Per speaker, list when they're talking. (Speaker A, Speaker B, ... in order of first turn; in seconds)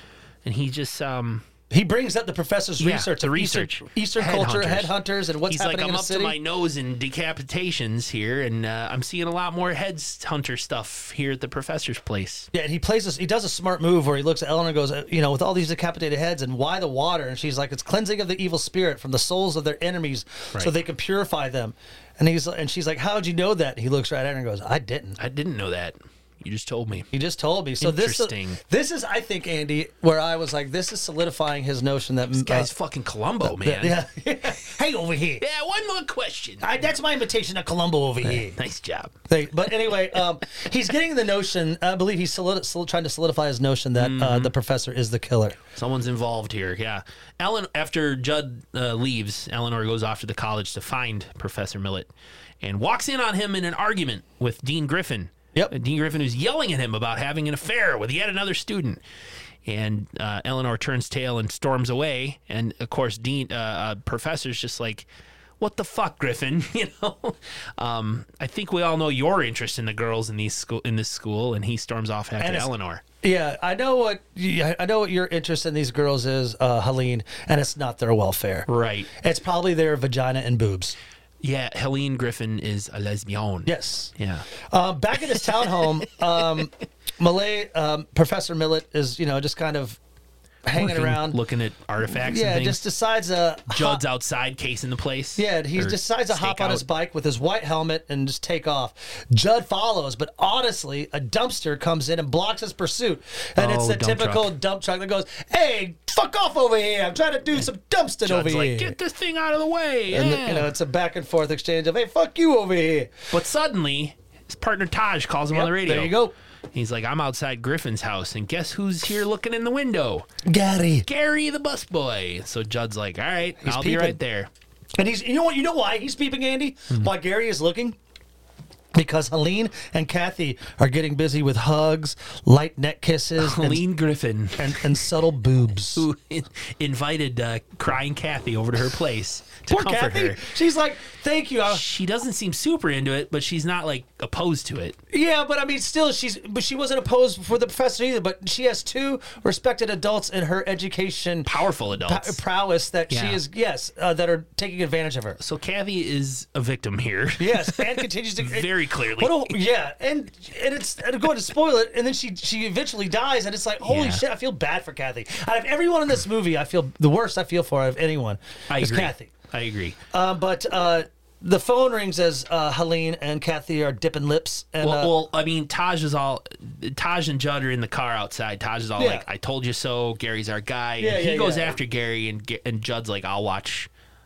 Speaker A: 0.4-1.5, 2.8-12.5, 25.2-27.1, 27.8-28.6, 32.3-34.0, 35.4-36.9, 38.2-39.2, 44.0-44.5, 45.7-52.1, 52.6-59.0, 59.6-65.1, 65.6-73.0, 78.7-79.1, 81.4-84.5, 85.3-86.4, 90.7-92.8, 93.7-96.9, 103.6-104.5, 108.2-110.7, 113.3-116.2, 116.7-120.3, 121.0-124.5, 133.4-135.0, 135.9-140.5, 141.7-145.0, 151.4-152.4, 153.1-153.4, 155.4-159.6, 163.8-164.2, 168.7-170.0, 174.8-183.9
Speaker B: 1.7-6.3, 12.5-25.2, 27.1-32.7, 33.4-35.4, 36.6-38.6, 39.3-45.6, 72.4-72.7, 73.2-81.0, 83.7-90.0, 90.6-91.4, 92.0-94.0, 95.4-109.0, 110.1-113.2, 115.5-116.3, 120.4-121.1, 123.6-124.2, 125.0-128.0, 128.9-133.8, 134.6-136.0, 139.7-141.8, 145.1-155.4, 157.4-169.3, 170.1-175.1, 179.0-179.2, 181.0-181.8